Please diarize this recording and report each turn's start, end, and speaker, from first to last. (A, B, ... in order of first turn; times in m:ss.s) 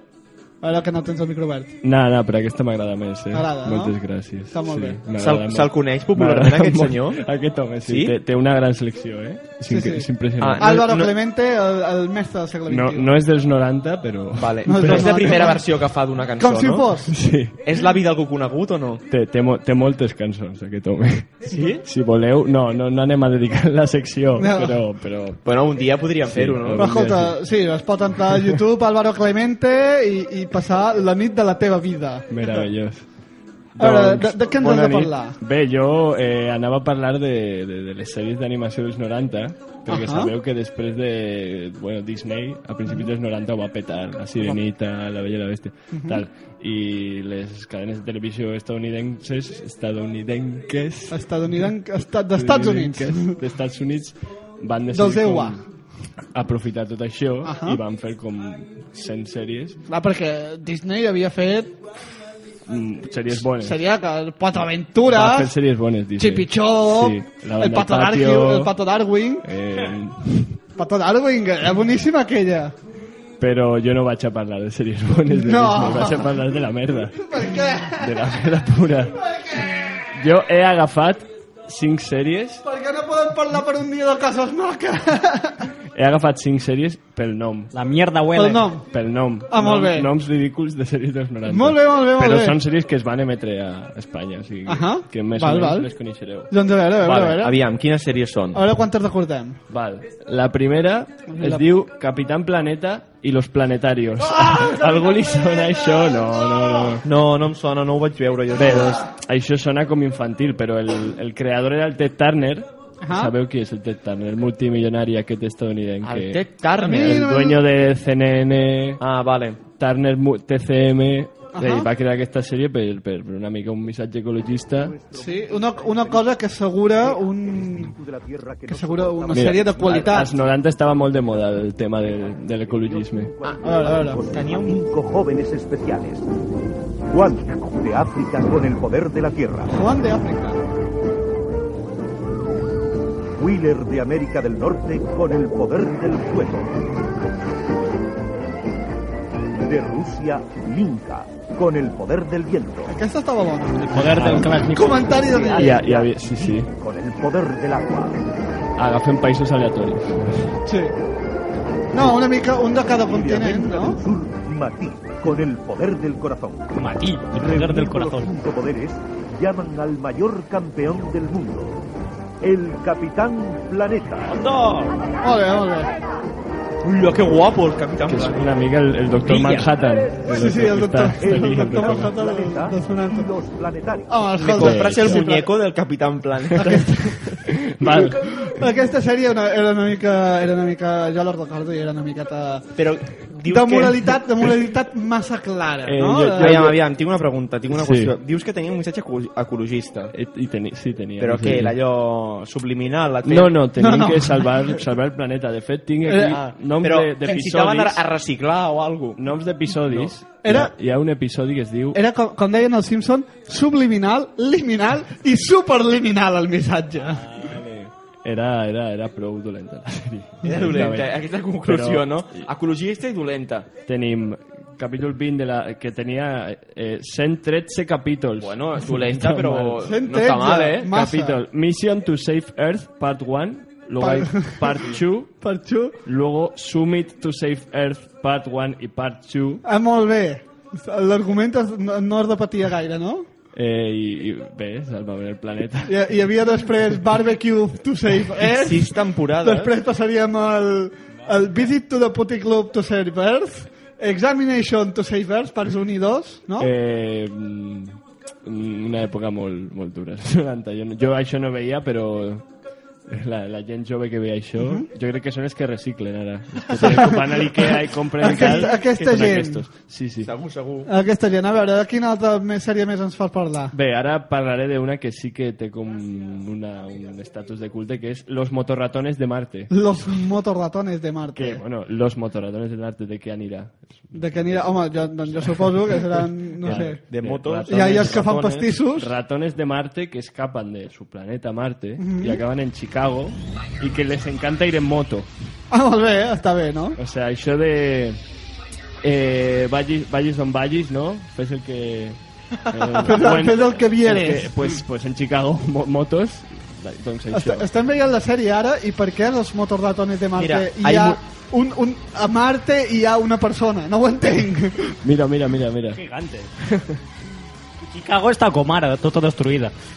0:00.6-0:01.7 A
0:01.8-0:10.7 B
0:03.3-0:05.0 A
0:05.2-0:07.2 C
0:07.8-0:08.1 C
0:09.7-0:10.1 A
0:10.4-0:11.1 C
0:10.6-0:13.1 A
0:12.7-0:15.5 B
0:14.4-0:17.0 C
0:14.6-0:15.6 A
0:16.4-0:17.1 A
0:17.1-0:17.6 B
0:17.6-0:19.0 C
0:19.1-0:25.4 B
0:21.5-0:21.8 C
0:24.4-0:24.8 A
0:25.4-0:26.8 C
0:26.3-0:27.4 B
0:26.8-0:32.6 A
0:28.3-0:28.6 B
0:32.3-0:33.1 B
0:33.7-0:51.7 B
0:33.8-0:35.4 A
0:39.9-0:40.3 A
0:45.9-0:46.2 A
0:51.1-0:53.4 A
0:52.3-0:55.6 B
0:54.9-0:55.6 A
0:56.3-0:59.8 B
0:57.4-0:57.8 A
0:59.9-1:01.7 A
1:02.6-1:03.8 B
1:03.4-1:05.5 A
1:05.1-1:08.7 B
1:06.2-1:09.5 A
1:09.4-1:10.6 B
1:10.8-1:12.7 A
1:13.4-1:19.2 B
1:15.3-1:16.3 A
1:17.1-1:18.4 A
1:19.2-1:19.8 A
1:19.8-1:22.6 B
1:22.6-1:25.7 A
1:25.9-1:27.7 B
1:27.7-1:28.7 D
1:28.3-1:28.9 A
1:28.9-1:36.5 B
1:29.5-1:30.1 A
1:31.4-1:32.6 A
1:34.6-1:35.9 A
1:36.5-1:37.6 A
1:37.0-1:38.6 C
1:38.5-1:39.6 A
1:39.7-1:47.0 B
1:41.3-1:41.6 A
1:47.0-1:49.0 C
1:48.5-1:59.0 B
1:53.0-1:53.3 A
1:56.0-1:57.2 C
1:56.7-1:57.6 A
1:59.0-1:59.6 C
1:59.7-2:05.0 B
2:01.5-2:01.9 A
2:04.7-2:10.6 E
2:05.1-2:07.9 A
2:08.7-2:10.3 A
2:09.3-2:13.3 B
2:12.0-2:16.2 E
2:13.6-2:14.2 A
2:14.3-2:14.8 C
2:17.1-2:19.8 E
2:19.6-2:20.6 A
2:23.4-2:26.7 E
2:29.5-2:32.9 E
2:32.9-2:35.9 A
2:33.8-2:35.8 D
2:34.0-2:34.7 B
2:35.4-2:36.7 B
2:36.7-2:38.2 E
2:38.8-2:40.6 B
2:40.6-2:40.9 A
2:41.9-2:44.0 A
2:43.0-2:46.7 E
2:46.7-2:48.4 D
2:47.3-2:51.8 E
2:52.4-2:54.4 E
2:54.3-2:55.0 D
2:55.2-2:55.9 A
2:56.8-2:58.5 C
2:58.1-3:02.1 B
2:59.2-2:59.7 D
3:00.3-3:03.3 A
3:01.2-3:04.2 E
3:04.1-3:05.5 A
3:04.3-3:06.6 C
3:04.6-3:05.2 B
3:06.5-3:08.4 B
3:06.6-3:12.6 A
3:12.8-3:14.2 C
3:13.4-3:16.7 A
3:15.8-3:16.8 B
3:16.4-3:20.1 C
3:17.7-3:18.1 B
3:20.1-3:21.8 B
3:21.2-3:23.5 C
3:23.2-3:28.0 B
3:23.8-3:24.5 A
3:26.0-3:26.4 A
3:26.3-3:29.2 C
3:29.2-3:32.0 B
3:30.4-3:30.7 A
3:31.9-3:37.3 A
3:37.3-3:42.5 B
3:40.5-3:43.7 C
3:43.8-3:49.9 B
3:48.4-3:50.9 C
3:49.8-3:51.4 A
3:50.8-3:55.3 B
3:54.0-3:54.8 A
3:55.4-3:56.0 A
3:56.0-3:59.6 B
3:59.6-4:03.3 A
4:03.5-4:05.9 B
4:05.9-4:16.7 A
4:08.5-4:09.7 C
4:16.6-4:22.4 B
4:23.1-4:30.3 B
4:24.6-4:24.8 A
4:26.7-4:29.6 A
4:30.2-4:30.9 C
4:30.8-4:33.7 A
4:33.7-4:39.8 B
4:39.7-4:41.6 A
4:41.3-4:48.3 B
4:44.1-4:47.0 A
4:47.1-4:48.7 C
4:47.7-4:49.1 A
4:48.9-4:55.3 B
4:52.0-4:52.4 A
4:55.7-4:57.0 A
4:57.0-4:58.2 B
4:59.0-5:07.7 B
5:02.7-5:04.6 A
5:07.3-5:15.0 A
5:10.4-5:11.2 C
5:15.0-5:16.0 B
5:15.9-5:16.5 D
5:16.6-5:17.0 B
5:17.8-5:19.7 D